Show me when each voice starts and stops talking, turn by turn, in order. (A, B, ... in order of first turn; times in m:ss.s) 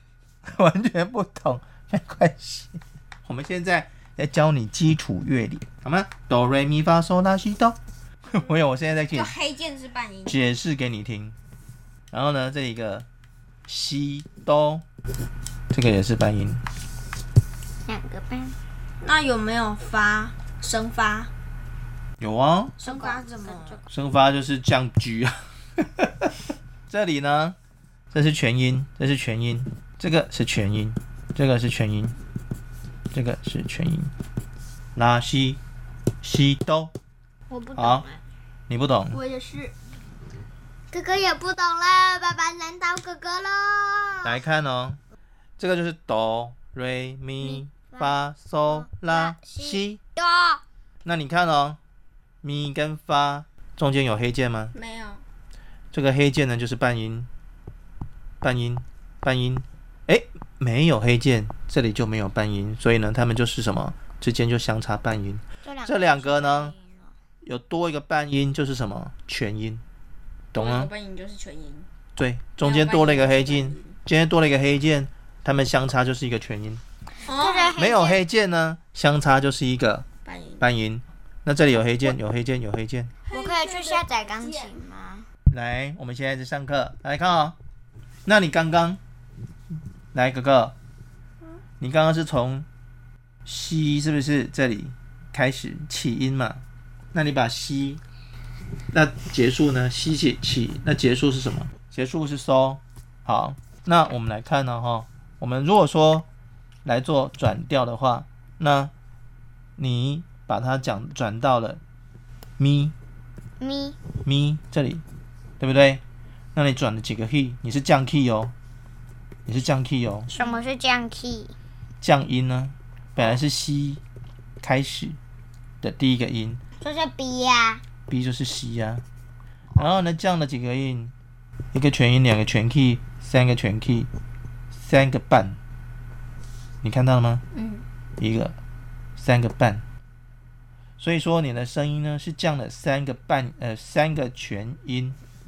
0:00.5-0:09.3 A
0:09.1-0:10.4 B
0:10.3-0:11.4 A
0:12.1-0:13.1 A
0:13.7-0:14.8 A
0:15.7-0:16.6 A
0:17.9-0:18.6 C
0:19.0-0:21.3 B
0:22.2-0:22.8 A
0:22.8-0:23.8 B
0:22.8-0:23.8 C
0:23.9-0:26.3 A
0:26.9-0:27.6 A
0:28.1-0:32.2 A
0:33.1-0:34.1 A
0:35.0-0:35.6 A
0:36.2-0:36.9 A
0:37.5-0:38.2 C
0:37.8-0:38.1 A
0:38.7-0:39.2 A
0:39.1-0:39.7 B
0:40.9-0:44.4 C
0:44.2-0:45.0 A
0:45.6-0:50.0 A
0:47.4-0:48.2 C
0:48.7-0:50.6 C
0:51.0-0:51.8 A
0:52.4-0:54.7 A
0:54.7-0:55.2 B
0:55.9-0:57.3 A
0:58.4-1:06.8 A
1:05.6-1:07.1 C
1:07.4-1:09.8 A
1:10.5-1:10.9 A
1:10.6-1:11.9 B
1:12.2-1:16.8 A
1:12.6-1:14.0 B
1:17.2-1:17.8 B
1:17.3-1:18.2 C
1:17.8-1:20.0 A
1:20.2-1:20.7 B
1:20.6-1:23.1 A
1:23.2-1:24.7 B
1:23.3-1:25.3 C
1:25.5-1:27.6 A
1:28.3-1:29.0 A
1:30.1-1:30.8 A
1:31.8-1:32.7 A
1:33.5-1:38.0 A
1:38.9-1:46.3 A
1:46.8-1:48.9 A
1:49.8-1:51.8 A
1:52.6-1:52.9 A
1:53.6-1:54.0 C
1:54.2-1:55.0 A
1:55.6-1:56.0 A
1:56.6-1:58.5 A
1:59.5-2:00.3 A
2:00.3-2:01.5 C
2:02.0-2:04.0 A
2:04.6-2:05.2 A
2:05.8-2:06.6 A
2:06.8-2:07.8 C
2:08.1-2:09.0 A
2:09.8-2:11.1 A
2:11.7-2:14.1 A
2:14.8-2:15.6 A
2:16.8-2:17.4 A
2:17.5-2:17.8 B
2:18.2-2:18.6 A
2:19.2-2:19.8 A
2:21.0-2:25.2 A